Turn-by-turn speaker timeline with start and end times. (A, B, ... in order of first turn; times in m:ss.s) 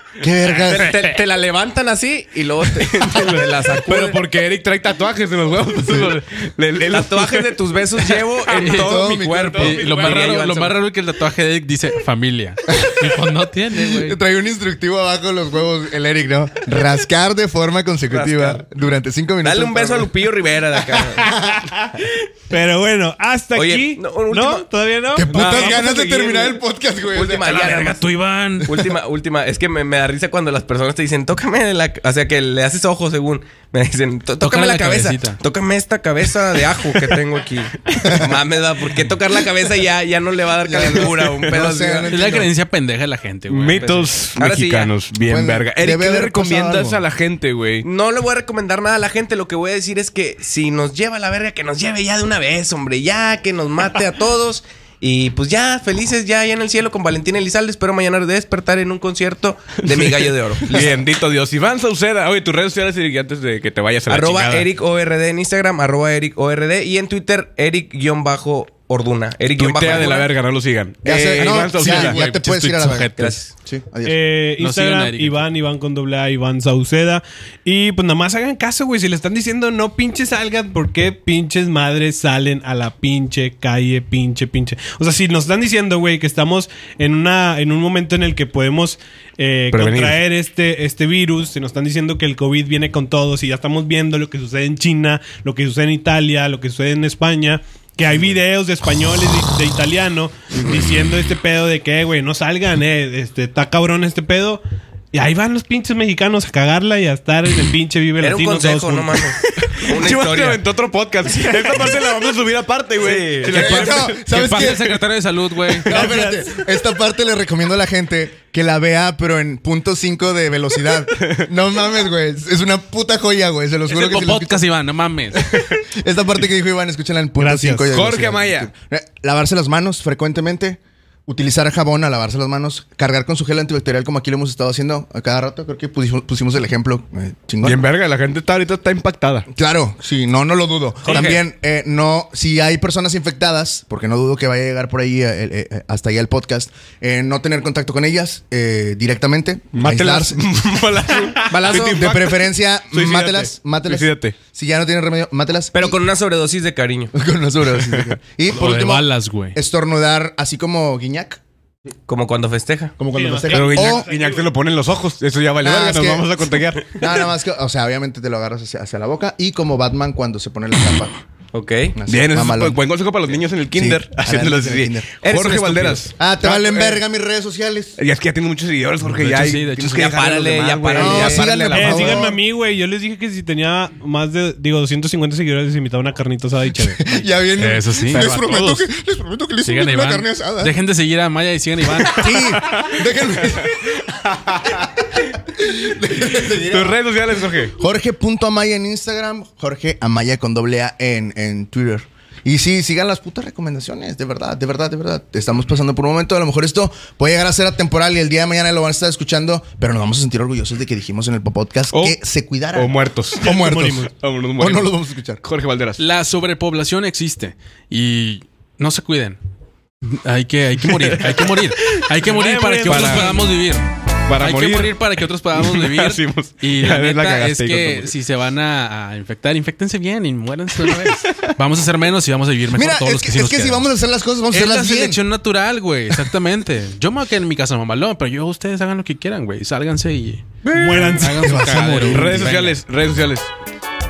0:00.2-0:01.0 A
0:00.6-0:04.2 B
0:02.8-0:08.2 C
0:05.8-0:06.2 A
0:06.9-0:10.8 B
0:08.6-0:09.0 D
0:08.6-0:09.8 A
0:09.2-0:10.1 C
0:09.6-0:14.2 D
0:12.7-0:20.1 A
0:18.1-0:18.6 B
0:19.4-0:21.3 B
0:21.1-0:21.7 A
0:21.2-0:26.5 E
0:23.5-0:24.7 B
0:25.1-0:27.5 A
0:25.3-0:26.5 B
0:27.1-0:28.1 B
0:27.4-0:28.7 D
0:28.6-0:42.1 B
0:34.4-0:35.4 D
0:40.6-0:42.5 A
0:42.1-0:44.1 D
0:43.5-0:47.8 C
0:43.8-0:44.9 B
0:45.2-0:47.0 A
0:47.8-1:00.8 B
0:59.8-1:04.7 C
1:04.1-1:10.3 B
1:09.5-1:12.2 C
1:11.0-1:11.7 B
1:11.0-1:14.3 A
1:11.7-1:13.4 D
1:13.2-1:13.5 B
1:14.0-1:44.6 E
1:14.6-1:15.4 D
1:29.7-1:30.2 C
1:45.1-1:49.2 E
1:48.2-1:50.6 B
1:49.4-1:54.2 C
1:51.4-1:52.0 B
1:53.0-1:54.0 B
1:53.4-1:55.0 A
1:53.9-1:55.9 D
1:55.8-1:56.6 E
1:55.8-2:04.7 A
2:03.9-2:05.5 D
2:05.3-2:17.8 A
2:07.4-2:07.9 E
2:07.9-2:08.7 C
2:17.6-2:19.5 C
2:19.5-2:30.5 A
2:21.0-2:21.4 B
2:29.7-2:34.4 C
2:31.2-2:32.0 B
2:31.7-2:36.0 A
2:35.7-2:37.1 B
2:37.1-2:41.4 A
2:38.5-2:39.6 D
2:42.1-2:43.0 B
2:43.0-2:44.0 A
2:43.1-2:44.5 E
2:43.5-2:47.0 C
2:45.6-2:51.2 A
2:51.5-2:52.0 B
2:52.0-2:52.8 A
2:52.1-2:57.0 C
2:53.7-2:55.2 A
2:55.2-2:56.0 B
2:56.1-2:58.0 A
2:58.0-3:02.0 C
2:59.0-3:00.6 D
2:59.8-3:02.2 B
3:00.9-3:02.4 A
3:01.7-3:07.1 E
3:06.7-3:10.7 A
3:07.6-3:08.6 D
3:08.1-3:08.9 C
3:09.6-3:12.6 D
3:12.0-3:13.0 C
3:12.1-3:14.9 A
3:15.5-3:17.0 A
3:16.7-3:17.7 C
3:17.7-3:35.4 A
3:31.9-3:32.2 C
3:32.7-3:36.0 C
3:33.4-3:34.1 E
3:36.0-3:39.4 D
3:40.0-3:53.9 D
3:40.9-3:41.4 C
3:42.1-3:43.5 E
3:42.8-3:43.4 C
3:44.3-3:45.0 C
3:45.5-3:48.1 C
3:52.7-3:55.2 A
3:54.5-4:00.6 D
4:00.6-4:03.5 C
4:00.7-4:01.6 E
4:01.1-4:02.8 D
4:01.4-4:02.5 A